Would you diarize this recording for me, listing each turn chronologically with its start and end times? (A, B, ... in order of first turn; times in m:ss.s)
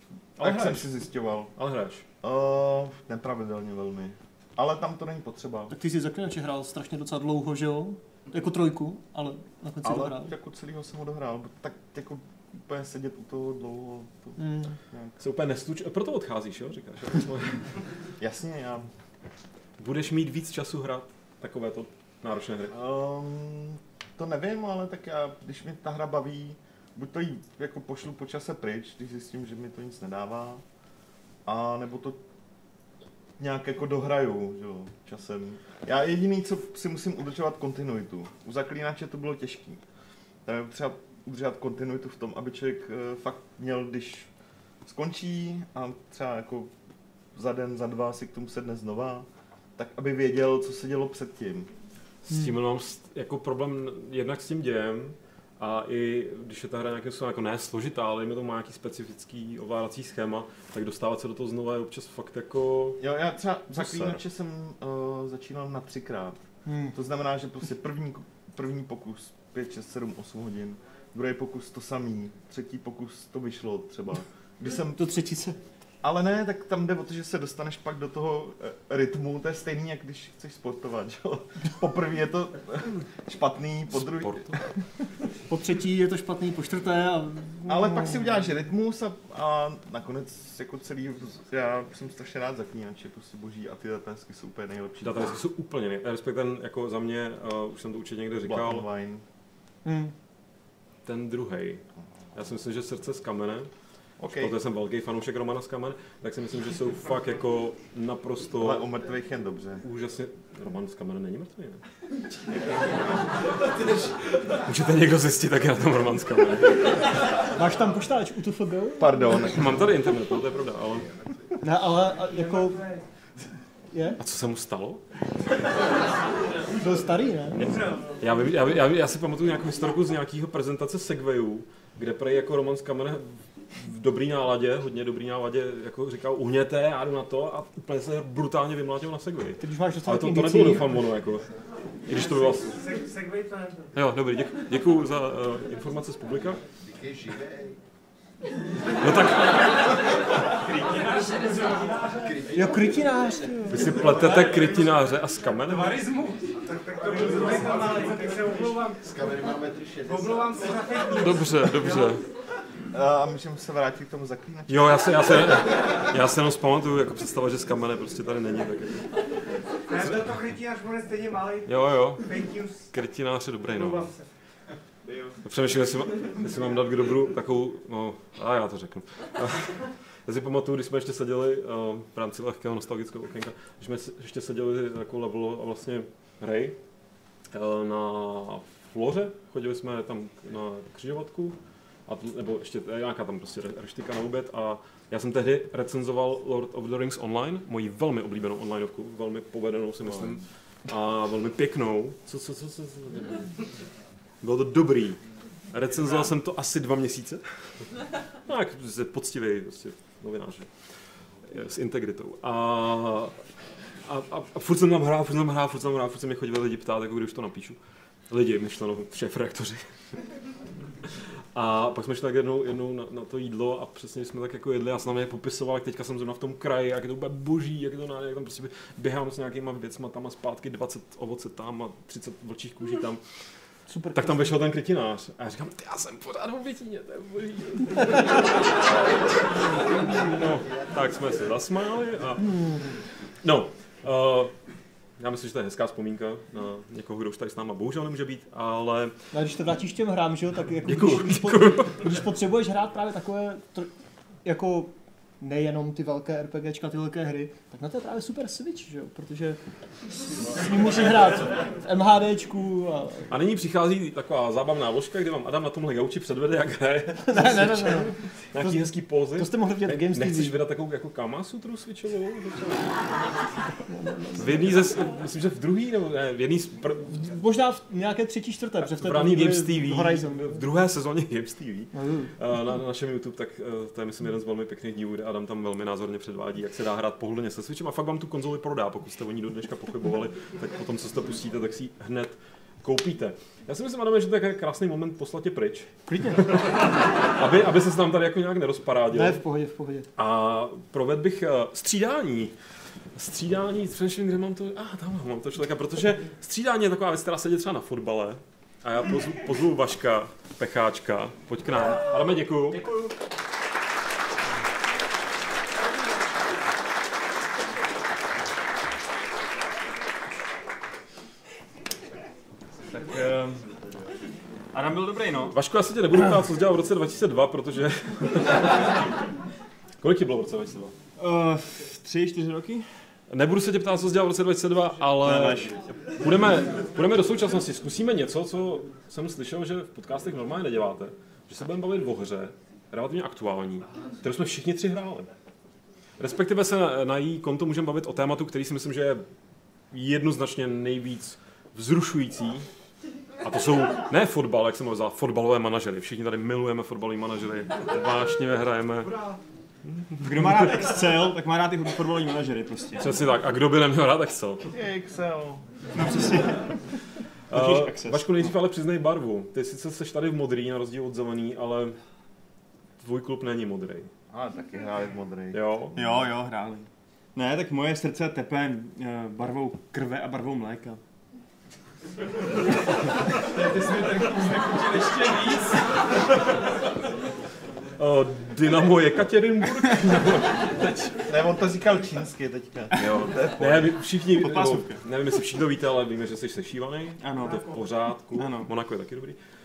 0:00.4-0:00.9 A
0:00.4-0:01.5 B
0:01.6-0:02.0 A
0:02.2-0:05.7 B
0:05.7-0:10.3 C
0:09.8-0:14.4 B
0:14.4-0:14.8 C
0:15.2-0:17.8 A
0:18.2-0:18.9 B
0:19.8-0:22.7 A
0:22.7-0:30.6 B
0:31.4-0:32.2 B
0:33.4-0:39.8 B
0:40.4-0:44.3 B
0:44.8-0:46.7 B
0:47.3-0:51.7 B
0:52.3-1:03.0 A
1:03.0-1:06.4 B
1:03.7-1:04.2 A
1:06.6-1:07.0 C
1:06.9-1:15.0 B
1:14.9-1:15.6 C
1:16.0-1:24.6 B
1:24.0-1:24.6 A
1:25.5-1:28.4 C
1:27.6-1:35.4 B
1:35.0-1:38.9 A
1:38.4-1:39.2 B
1:39.8-1:40.1 C
1:41.0-1:41.8 A
1:42.4-1:43.7 A
1:44.2-1:44.5 B
1:44.3-1:48.8 A
1:48.6-1:49.8 B
1:49.8-1:51.8 A
1:52.5-1:53.6 A
1:54.3-1:57.1 A
1:57.4-1:59.1 C
1:59.0-1:59.9 B
1:59.4-2:01.2 A
2:01.6-2:02.9 C
2:03.9-2:04.2 C
2:04.2-2:05.0 A
2:06.7-2:07.6 C
2:07.6-2:23.0 A
2:19.6-2:21.0 C
2:23.2-2:23.6 D
2:23.9-2:26.6 A
2:29.0-2:30.2 A
2:31.0-2:32.4 D
2:32.5-2:34.0 C
2:33.7-2:36.0 A
2:35.8-2:39.0 D
2:40.0-2:41.3 D
2:41.1-2:42.3 A
2:42.9-2:45.4 B
2:44.7-2:49.3 A
2:49.9-2:50.4 A
2:49.9-2:51.6 D
2:51.6-2:54.2 A
2:52.3-2:52.8 D
2:55.0-2:55.4 B
2:55.4-3:06.8 A
3:07.5-3:23.6 A
3:24.4-3:30.7 A
3:31.4-3:33.4 A
3:34.0-3:37.8 A
3:38.3-3:40.0 A
3:41.0-3:53.2 A
3:53.9-3:54.6 C
3:54.1-4:04.6 A
4:02.4-4:02.9 C
4:05.2-4:09.1 A
4:09.3-4:13.9 C
4:10.9-4:12.2 A
4:14.4-4:23.3 C
4:23.3-4:33.3 A
4:27.3-4:30.6 C
4:33.9-4:34.7 C
4:34.4-4:37.2 A
4:37.1-4:40.6 C
4:38.8-4:55.9 A
4:41.9-4:42.3 C
4:56.1-4:56.6 C
4:56.4-4:59.4 A
4:59.1-5:00.1 C
5:00.2-5:02.6 A
5:03.1-5:12.8 A
5:22.9-5:23.7 E
5:24.7-5:25.6 E
5:25.5-5:29.1 A
5:30.0-5:30.9 A
5:31.2-5:33.1 E
5:33.3-5:45.3 A
5:35.2-5:36.1 E
5:46.2-5:49.2 A
5:49.9-5:52.7 A
5:53.4-5:59.3 A
5:59.9-6:00.8 A
6:00.2-6:03.1 E
6:03.0-6:04.7 A
6:04.7-6:05.9 B
6:05.9-6:06.8 E
6:07.5-6:12.0 A
6:07.5-6:08.5 E
6:13.0-6:14.1 A
6:14.3-6:15.6 B
6:15.5-6:16.0 A
6:15.9-6:21.0 E
6:23.9-6:25.8 E
6:28.0-6:31.2 A
6:31.2-6:33.9 B
6:33.0-6:39.4 A
6:34.3-6:35.0 E
6:37.2-6:37.7 E
6:38.3-6:38.7 E